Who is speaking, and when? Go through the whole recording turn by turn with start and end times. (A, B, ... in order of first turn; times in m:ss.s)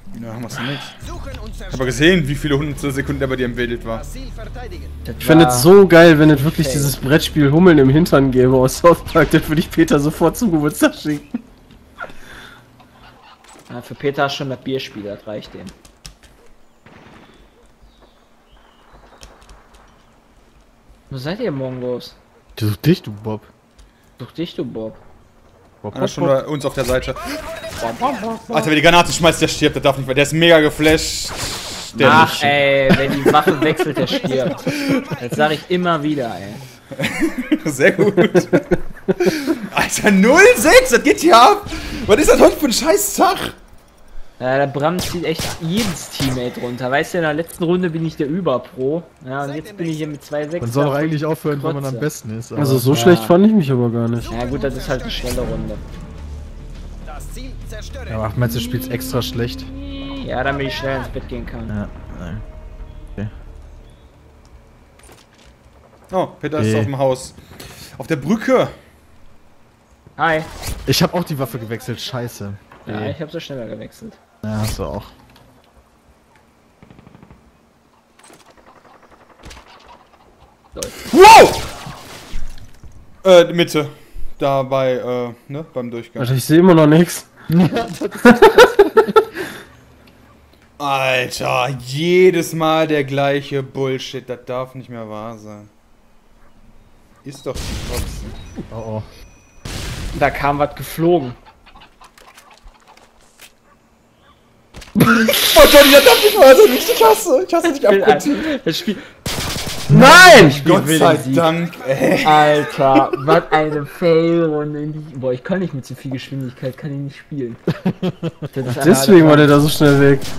0:00.1-0:01.0 A
0:01.7-0:04.1 A
0:05.0-0:05.7 B
0:05.2-0:11.4 C
0:06.4-0:07.0 B
0:13.7-0:15.7 B
0:21.1-0:22.2 B
0:22.6-0:23.5 D
0:24.2-0:25.0 B
0:25.8-0:26.4 D
0:25.9-0:27.5 A
0:27.8-0:28.7 B
0:28.5-0:33.8 A
0:32.0-0:36.6 B
0:32.0-0:32.5 D
0:36.9-0:43.6 A
0:44.4-0:52.1 B
0:50.6-0:53.0 D
0:52.6-0:54.3 C
0:52.9-0:53.4 B
0:54.3-0:55.8 B
0:58.1-0:59.7 D
0:58.8-1:01.7 B
1:01.7-1:02.4 D
1:06.1-1:08.7 A
1:06.6-1:06.9 D
1:10.2-1:10.5 B
1:10.8-1:13.2 D
1:12.8-1:14.2 B
1:14.4-1:15.1 D
1:20.7-1:21.0 B
1:21.1-1:21.7 A
1:23.2-1:26.3 A
1:26.2-1:27.3 C
1:27.5-1:29.3 D
1:30.8-1:35.7 A
1:37.2-1:38.4 A
1:38.7-1:39.1 D
1:40.1-1:41.4 B
1:45.0-1:45.5 B
1:45.1-1:48.6 A
1:47.7-1:49.1 B
1:49.9-1:51.5 B
1:50.3-1:53.1 A
1:52.2-1:57.6 B
1:57.8-1:58.5 D
1:58.5-1:59.5 B
1:58.6-2:00.3 C